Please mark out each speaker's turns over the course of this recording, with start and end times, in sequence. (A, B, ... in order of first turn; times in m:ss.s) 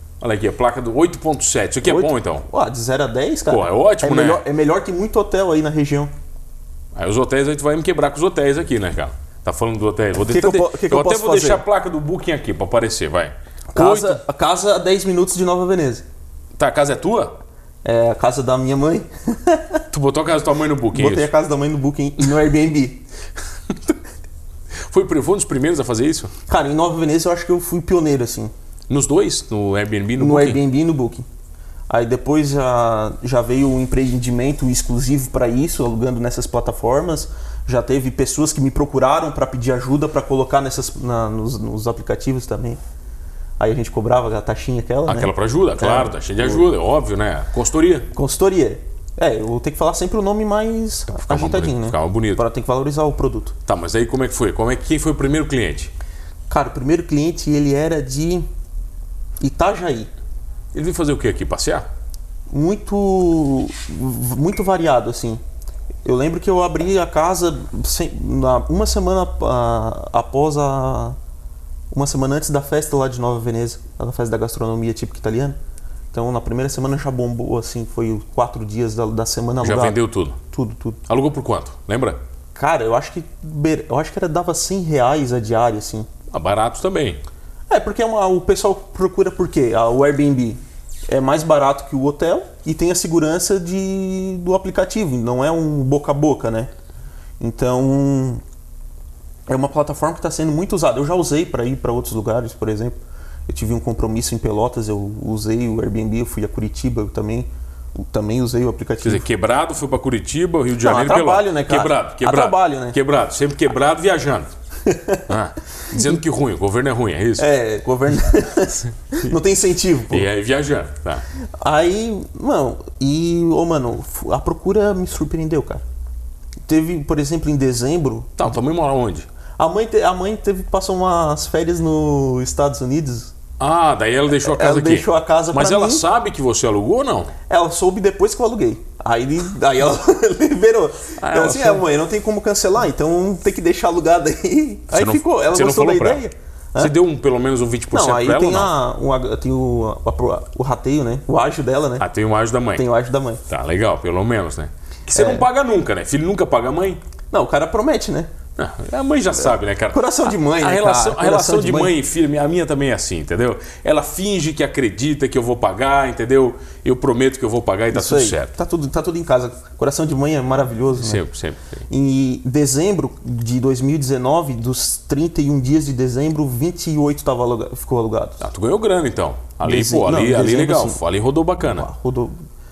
0:00.2-0:02.4 A
0:01.8-0:06.1 B
0:03.5-0:04.4 A
0:07.0-0:14.2 A
0:10.2-0:11.6 B
0:13.7-0:16.0 B
0:16.6-0:17.3 A
0:17.8-0:19.8 B
0:19.9-0:21.3 A
0:20.9-0:23.0 B
0:24.9-0:26.3 A
0:26.5-0:28.5 B
0:28.9-0:30.6 A
0:30.2-0:31.3 B
0:31.9-0:42.8 B
0:43.6-0:46.7 B
0:45.1-0:48.1 A
0:48.1-0:53.6 B
0:51.1-0:52.4 A
0:53.7-0:55.9 A
0:56.5-0:58.5 B
0:59.4-1:00.1 B
1:00.7-1:01.9 A
1:02.5-1:05.4 B
1:06.0-1:11.2 B
1:11.9-1:15.6 B
1:16.1-1:20.0 B
1:19.6-1:20.4 A
1:20.5-1:21.0 B
1:21.1-1:22.2 A
1:22.6-1:26.1 B
1:26.3-1:27.2 A
1:27.7-1:36.7 B
1:37.4-1:38.4 B
1:39.5-1:43.0 B
1:43.5-1:49.2 B
1:49.0-1:54.5 A
1:50.8-1:53.0 B
1:54.9-1:55.2 B
1:55.3-1:57.5 A
1:57.4-2:00.3 B
2:00.1-2:01.2 A
2:01.6-2:05.8 B
2:06.7-2:08.5 B
2:08.4-2:09.3 A
2:09.6-2:13.3 B
2:13.6-2:17.3 A
2:14.4-2:16.0 B
2:17.5-2:26.9 B
2:21.2-2:21.8 A
2:24.9-2:26.2 A
2:26.8-2:28.7 A
2:27.9-2:32.1 B
2:32.0-2:32.8 A
2:32.8-2:33.4 B
2:33.5-2:37.0 A
2:35.1-2:35.4 B
2:37.3-2:38.3 B
2:38.6-2:48.5 A
2:39.9-2:41.9 B
2:47.9-2:51.2 B
2:51.0-2:51.8 A
2:51.9-2:58.5 B
2:58.4-3:01.9 A
2:59.6-3:01.0 B
3:01.6-3:02.4 B